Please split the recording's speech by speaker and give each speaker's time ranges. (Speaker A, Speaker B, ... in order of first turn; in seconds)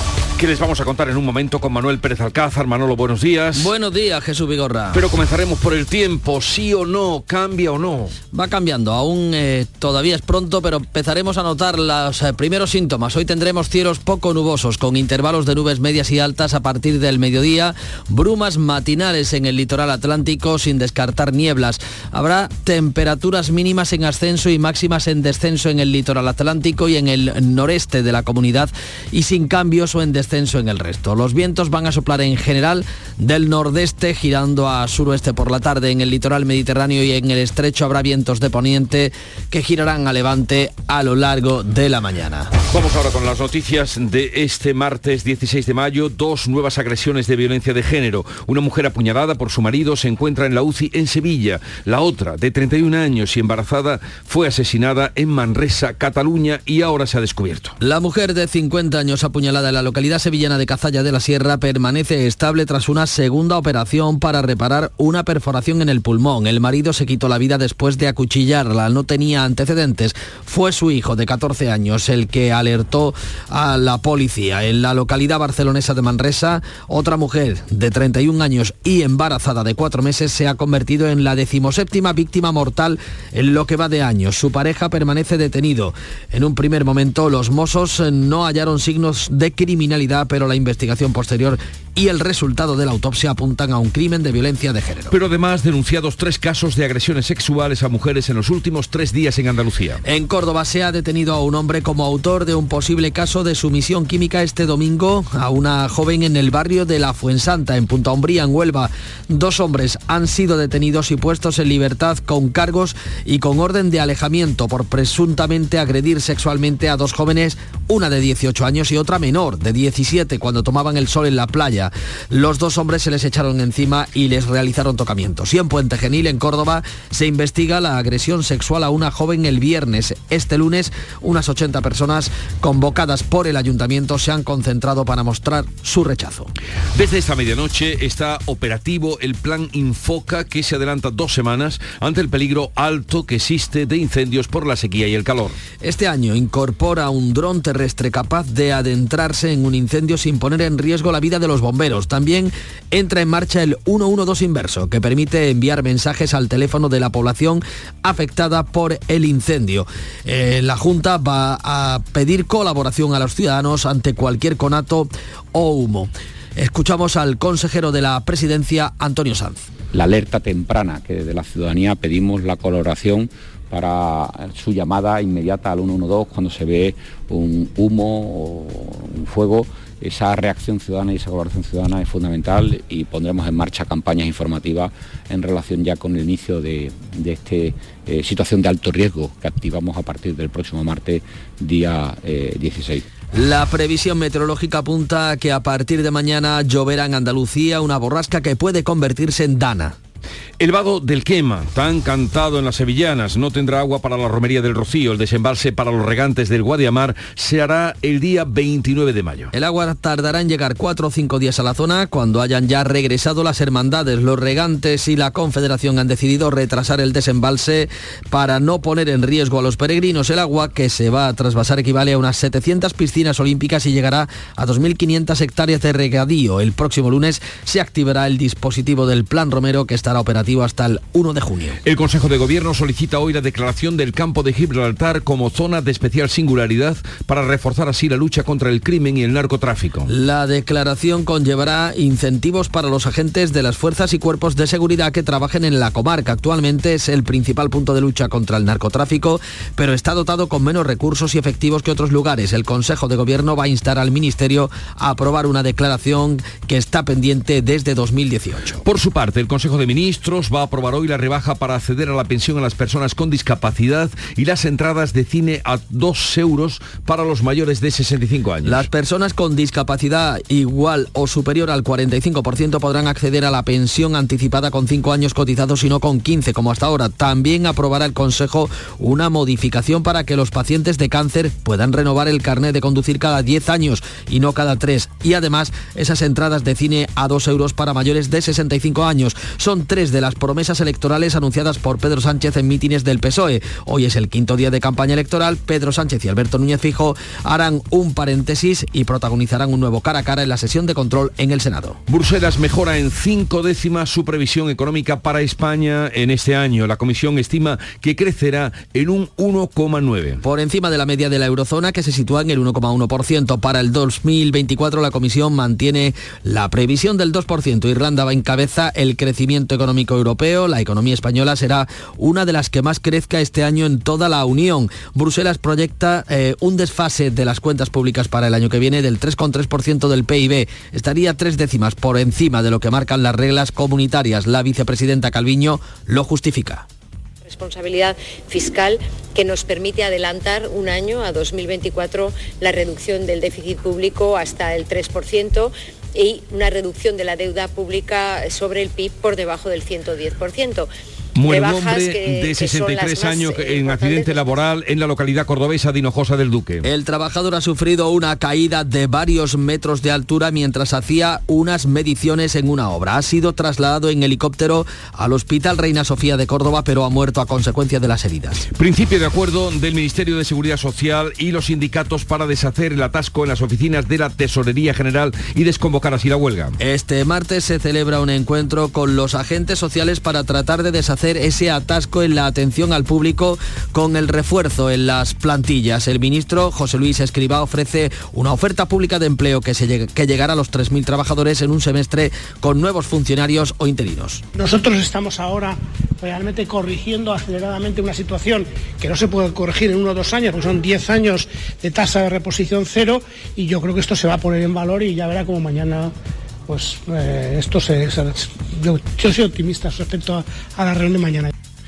Speaker A: 0.4-3.7, 4.9-8.2, 42.7-57.8, 95.1-100.0, 136.9-145.6, 200.6-209.5, 231.8-240.1, 258.9-268.8, 302.1-310.4, 351.4-356.9, 368.8-376.8
Speaker B: 3.5-5.0, 8.3-42.5, 57.8-95.2, 100.0-136.5, 145.8-169.7, 193.3-200.0, 209.5-231.8, 240.1-258.8, 268.6-302.0, 310.4-336.9, 356.8-368.7, 376.8-394.4
Speaker C: 169.9-193.1
Speaker D: 337.4-350.9, 351.4-354.6
Speaker E: 394.6-406.1, 406.7-411.5